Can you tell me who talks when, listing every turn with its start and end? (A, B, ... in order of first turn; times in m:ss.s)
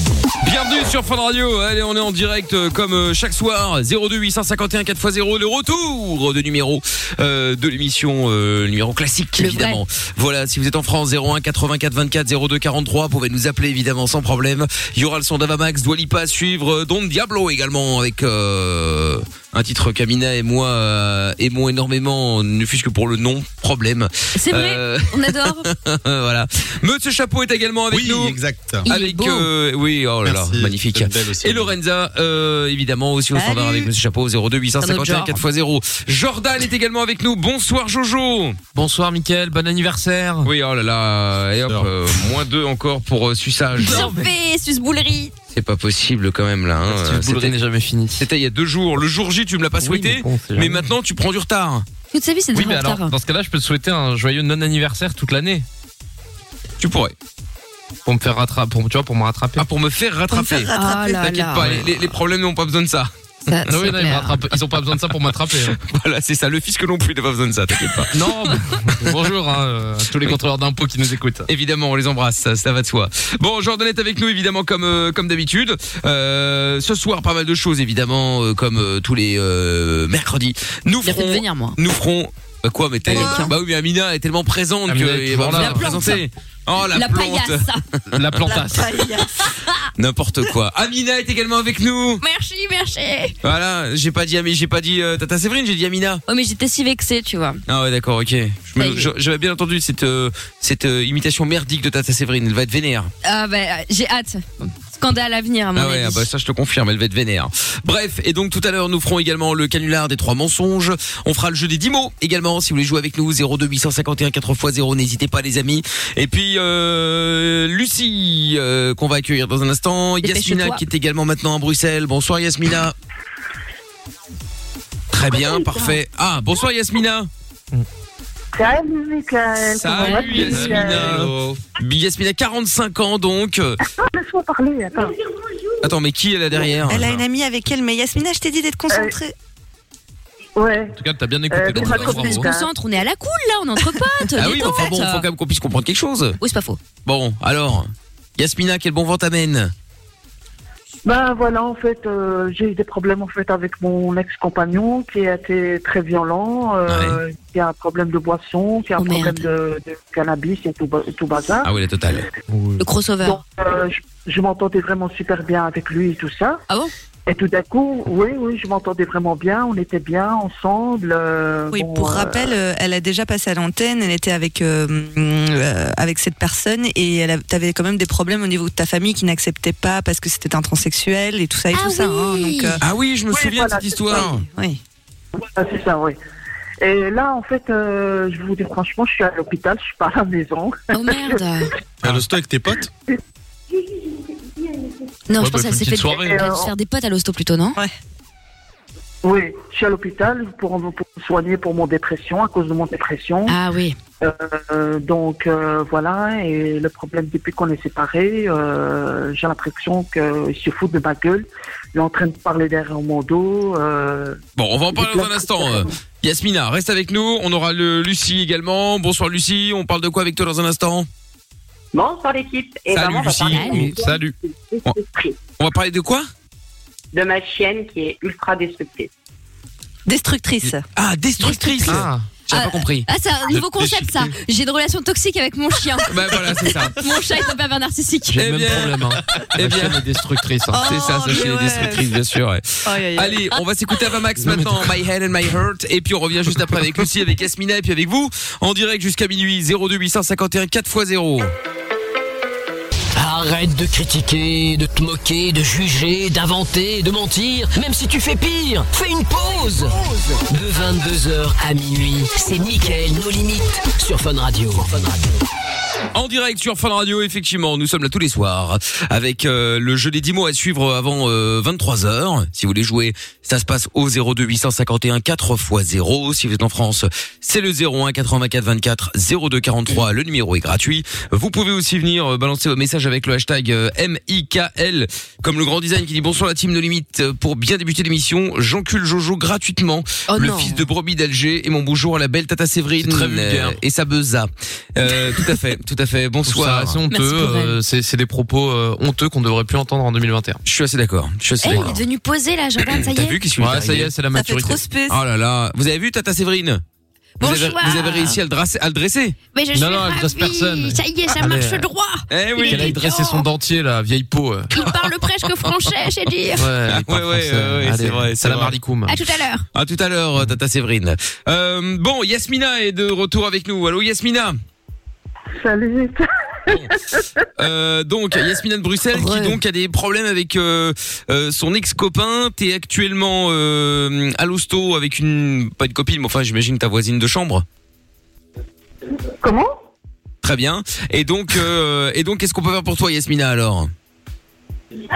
0:00.4-0:38.6 A
0:09.4-0:09.8 B
0:24.3-0:25.7 B
0:27.9-0:28.8 C
0:28.8-0:29.5 B
0:30.2-0:31.8 C
0:33.3-0:33.9 D
0:34.8-0:35.4 B
0:38.7-0:40.5 E
0:40.4-0:44.1 A
0:41.6-0:41.9 C
0:43.8-0:45.3 B
0:45.5-0:47.6 A
0:46.9-0:48.2 E
0:48.2-0:51.8 A
0:49.8-0:50.8 E
0:52.1-0:53.1 B
0:52.5-0:55.6 E
0:56.8-0:57.1 A
0:58.0-0:59.6 E
0:59.6-1:03.1 A
1:00.3-1:01.2 D
1:00.7-1:01.7 B
1:01.6-1:02.0 E
1:03.5-1:04.4 B
1:03.6-1:05.8 E
1:05.5-1:08.5 A
1:08.1-1:11.4 E
1:11.5-1:28.4 A
1:21.0-1:21.8 B
1:23.0-1:23.5 B
1:23.1-1:23.5 D
1:24.9-1:25.9 E
1:25.5-1:26.2 B
1:26.9-1:27.8 B
1:28.1-1:29.0 E
1:28.4-1:29.4 D
1:29.4-1:29.7 B
1:30.0-1:32.2 A
1:32.2-1:33.3 B
1:33.4-1:36.2 A
1:36.3-1:37.6 B
1:37.7-1:43.1 A
1:38.8-1:39.1 B
1:43.2-1:46.3 B
1:45.7-2:03.0 A
2:00.2-2:00.8 B
2:05.1-2:07.3 A
2:08.6-2:11.2 F
2:09.6-2:13.8 A
2:10.3-2:11.6 E
2:14.0-2:15.1 F
2:15.8-2:17.1 A
2:16.8-2:19.3 D
2:17.0-2:17.2 E
2:20.6-2:20.9 F
2:20.9-2:22.5 E
2:21.5-2:22.7 F
2:21.8-2:25.2 B
2:24.3-2:26.4 A
2:26.4-2:26.8 B
2:27.0-2:29.7 A
2:31.0-2:41.7 F
2:36.9-2:37.2 A
2:39.0-2:39.4 B
2:41.6-2:42.2 A
2:42.5-2:42.8 E
2:42.8-2:43.4 B
2:43.2-2:46.6 F
2:47.3-2:52.5 F
2:51.7-3:02.8 D
3:01.7-3:02.8 B
3:02.8-3:04.4 A
3:03.3-3:04.4 F
3:04.2-3:04.8 D
3:05.4-3:06.2 F
3:06.8-3:11.4 F
3:10.9-3:11.7 B
3:12.0-3:12.9 C
3:15.3-3:17.8 B
3:15.4-3:16.4 E
3:16.1-3:16.7 F
3:19.2-3:23.6 F
3:23.5-3:24.0 B
3:24.2-3:34.4 F
3:34.6-3:41.1 A
3:34.9-3:35.9 F
3:41.9-3:45.4 G
3:42.9-3:43.9 A
3:43.5-3:43.8 B
3:43.6-3:44.3 E
3:45.6-3:46.3 A
3:47.1-3:49.1 G
3:50.0-3:50.8 D
3:50.9-3:53.1 A
3:51.4-3:56.2 B
3:51.9-3:52.3 E
3:53.8-3:54.1 A
3:56.1-3:57.0 A
3:57.0-3:58.6 B
3:58.3-4:00.0 A
3:58.4-4:00.8 E
4:00.7-4:02.1 D
4:00.8-4:11.5 A
4:02.8-4:03.4 D
4:04.4-4:04.8 E
4:13.1-4:25.4 H
4:26.1-4:57.0 A
4:50.3-4:50.9 B
4:53.0-4:53.8 E
4:56.4-5:00.6 E
4:57.1-4:57.8 B
5:00.6-5:02.0 A
5:01.6-5:03.4 B
5:02.8-5:04.1 A
5:03.6-5:04.9 E
5:04.3-5:05.2 D
5:05.1-5:06.8 A
5:07.4-5:08.4 B
5:07.4-5:09.4 A
5:09.5-5:13.5 B
5:09.7-5:11.9 E
5:12.3-5:13.1 A
5:12.7-5:14.7 E
5:14.7-5:16.7 B
5:14.8-5:15.7 A
5:16.6-5:19.2 E
5:16.8-5:18.8 A
5:19.1-5:19.6 B
5:19.7-5:24.6 A
5:25.6-5:27.4 F
5:26.7-5:27.0 A
5:27.6-5:37.6 A
5:29.1-5:29.6 B
5:39.4-5:39.7 F
5:40.4-5:43.9 A